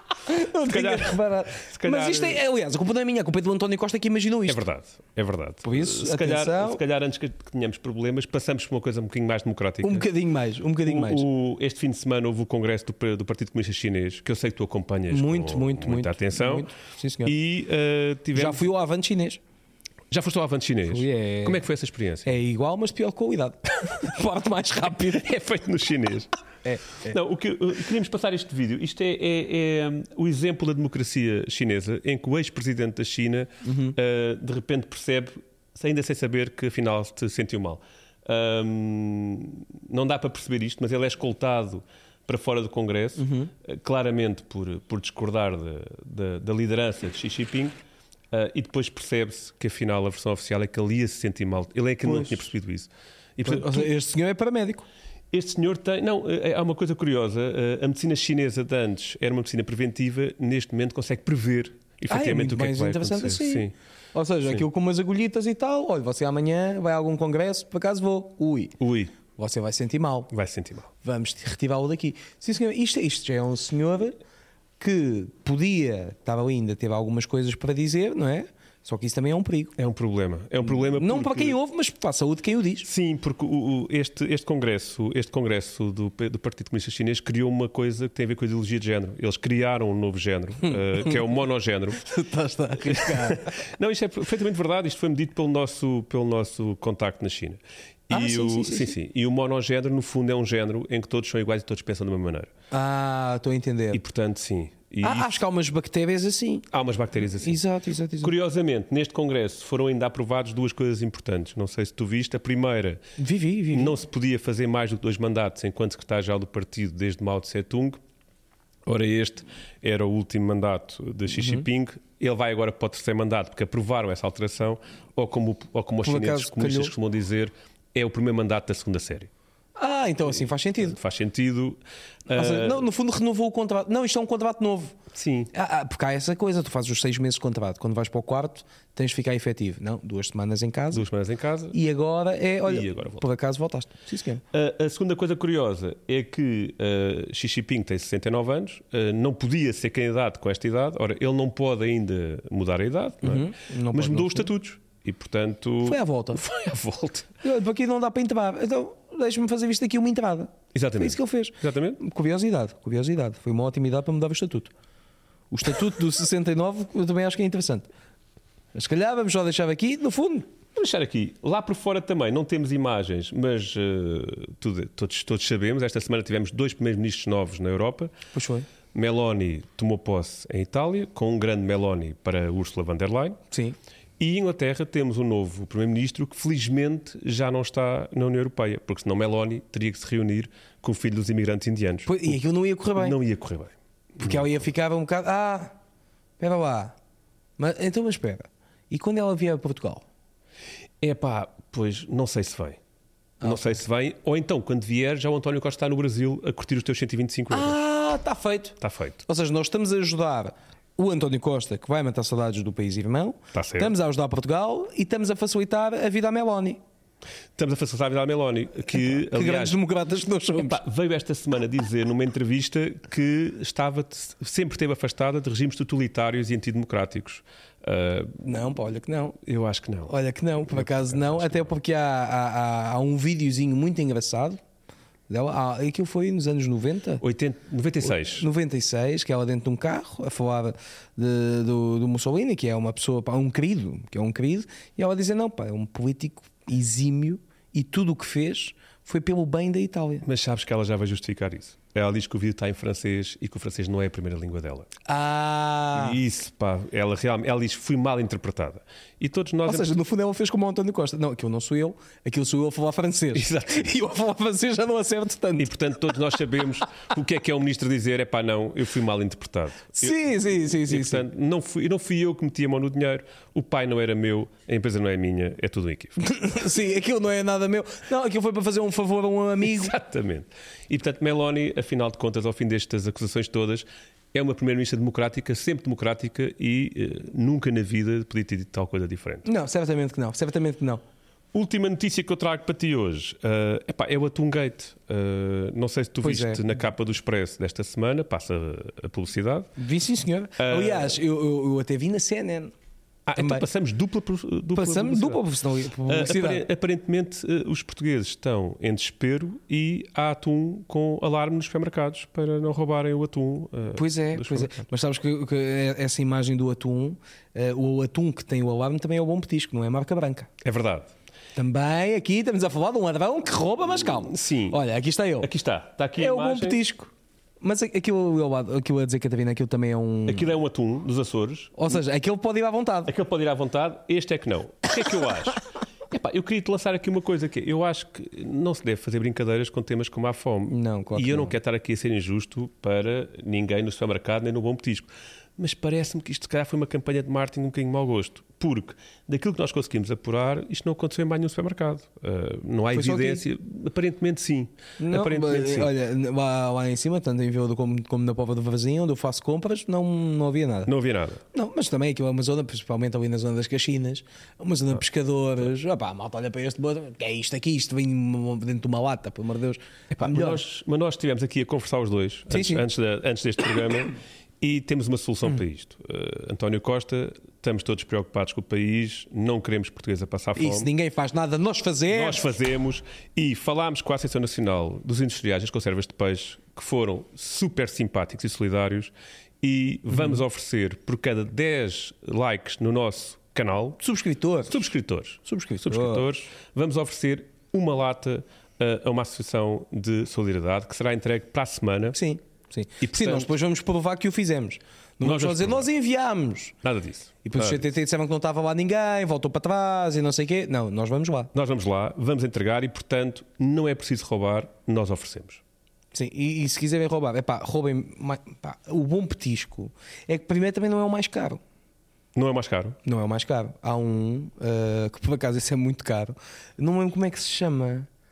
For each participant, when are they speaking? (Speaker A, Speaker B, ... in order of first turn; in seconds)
Speaker A: 0.2-4.6, 5.6-6.8, 9.8-11.2, 15.1-17.3, 18.3-19.4, 20.9-21.6, 22.2-25.3, 26.6-27.2, 33.6-34.0, 43.2-43.5, 52.0-52.5, 53.4-54.9, 62.1-68.8, 69.3-70.3, 71.0-74.2, 74.8-79.7, 80.7-82.9, 90.7-91.2, 92.0-93.5, 98.1-99.0, 102.7-104.0, 105.0-106.7, 107.4-108.3, 113.2-114.0, 121.3-121.7, 126.0-126.9, 129.8-131.0, 132.3-134.9, 135.5-141.1, 141.7-144.4, 153.2-154.5, 155.8-156.4, 157.4-164.7, 165.5-167.9, 168.8-170.5, 178.3-178.7, 183.5-183.8, 192.1-193.2, 194.2-195.8, 196.4-196.9, 197.6-200.0, 203.4-203.8, 207.5-216.8, 218.9-220.8, 228.4-229.4, 230.1-234.6, 235.3-237.2, 238.0-250.2, 255.1-256.2, 259.6-265.7, 270.0-271.2, 276.2-279.9, 289.4-291.0, 296.2-296.6, 299.8-302.7, 303.4-303.6, 304.8-306.6, 313.9-320.5, 321.6-325.5, 326.2-330.5, 331.8-333.1, 340.7-341.6, 352.9-353.4, 355.0-360.9, 361.5-370.6, 372.5-372.8, 380.6-382.5, 394.0-394.9, 395.4-396.2, 402.1-406.8, 407.4-411.5, 416.1-421.6, 423.1-428.1
Speaker B: 0.7-2.4, 4.5-10.1, 10.9-16.7, 17.2-18.6, 20.1-22.3, 25.0-26.3, 27.0-47.8, 48.3-53.9, 55.3-63.7, 68.8-69.2, 70.3-70.9, 79.8-81.6, 82.8-92.0, 92.8-102.5, 103.9-105.4, 106.7-107.6, 108.2-113.0, 113.7-118.0, 118.9-129.3, 130.6-132.8, 135.1-135.5, 140.9-141.8, 142.7-143.2, 144.5-157.3, 160.7-162.0, 170.8-178.1, 178.9-183.4, 184.2-192.3, 193.0-194.4, 201.0-202.8, 203.4-207.8, 208.8-209.2, 213.5-213.9, 217.6-219.8, 220.6-228.4, 229.4-230.2, 230.7-231.7, 237.2-238.4, 250.2-254.9, 255.9-259.9, 263.3-263.9, 265.6-276.2, 279.6-289.5, 291.5-299.7, 300.6-301.2, 303.3-305.4, 306.1-314.7, 320.6-321.1, 324.1-324.8, 325.4-326.8, 330.3-331.8, 333.1-355.9, 360.9-361.4, 370.1-380.9, 382.1-394.0, 394.7-402.2, 403.0-403.5, 405.2-405.9, 406.8-407.8, 411.5-415.6, 422.4-423.0